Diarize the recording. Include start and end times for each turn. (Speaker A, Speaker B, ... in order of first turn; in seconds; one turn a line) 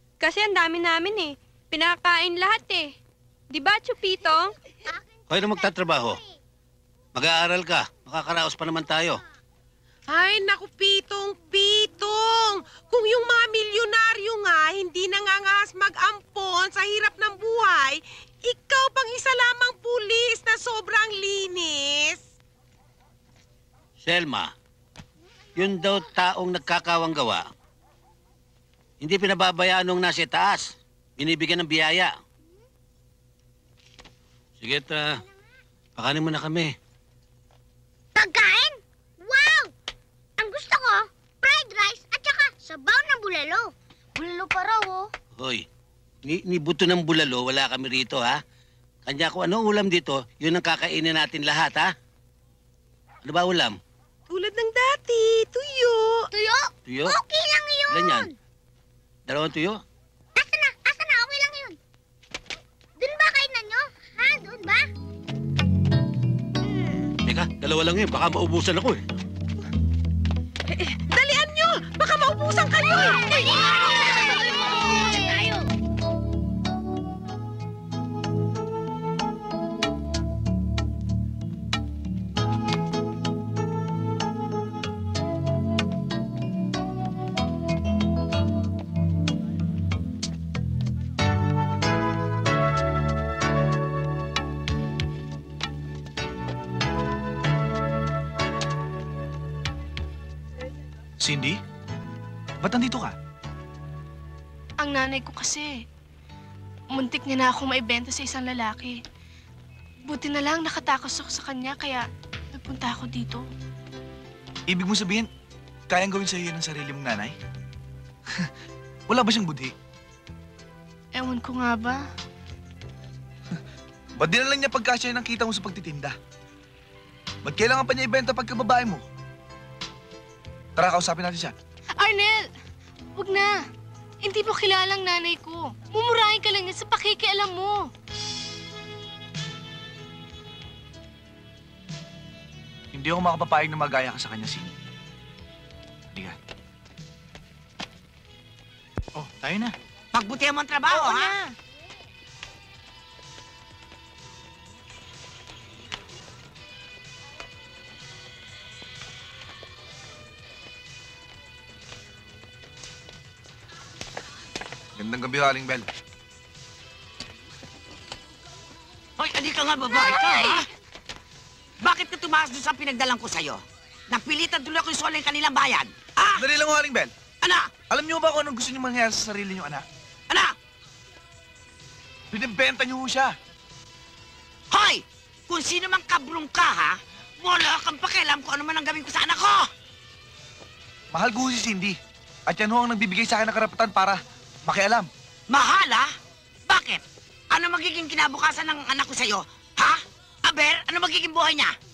Speaker A: 0.2-2.9
Speaker A: 3.5-4.5
Speaker B: 5.3-6.2
Speaker B: 7.1-9.2
Speaker C: 10.1-22.2
Speaker B: 24.0-24.5
Speaker B: 25.6-27.4
Speaker B: 29.0-32.1
Speaker B: 34.6-35.2
Speaker B: 36.0-36.7
Speaker D: 38.2-39.7
Speaker D: 40.4-45.1
Speaker B: 45.4-45.6
Speaker B: 46.2-48.4
Speaker B: 49.0-51.9
Speaker B: 53.2-53.8
Speaker C: 54.3-56.3
Speaker D: 56.3-58.3
Speaker B: 56.9-57.2
Speaker B: 57.9-58.3
Speaker B: 59.3-59.8
Speaker D: 60.4-61.8
Speaker D: 63.0-64.9
Speaker B: 67.2-69.0
Speaker C: 70.8-73.3
Speaker D: 73.2-74.8
Speaker C: 75.0-75.4
Speaker E: 101.2-101.6
Speaker E: 102.6-103.1
Speaker F: 104.8-105.8
Speaker F: 106.9-109.0
Speaker F: 110.1-113.4
Speaker E: 114.7-115.3
Speaker E: 115.9-117.3
Speaker E: 119.1-119.7
Speaker F: 121.2-122.0
Speaker E: 124.2-126.1
Speaker E: 127.4-129.0
Speaker E: 130.8-131.5
Speaker F: 132.0-132.4
Speaker F: 133.2-133.6
Speaker F: 134.2-137.8
Speaker E: 142.9-144.7
Speaker E: 149.2-149.7
Speaker G: 150.1-151.4
Speaker E: 164.9-165.9
Speaker G: 169.2-170.7
Speaker G: 171.8-176.4
Speaker E: 176.4-177.1
Speaker G: 177.4-177.7
Speaker E: 177.9-179.8
Speaker G: 180.3-180.5
Speaker E: 182.3-183.3
Speaker G: 184.7-189.7
Speaker E: 191.1-192.0
Speaker E: 192.5-195.1
Speaker G: 195.5-196.1
Speaker G: 196.7-197.0
Speaker G: 197.5-201.7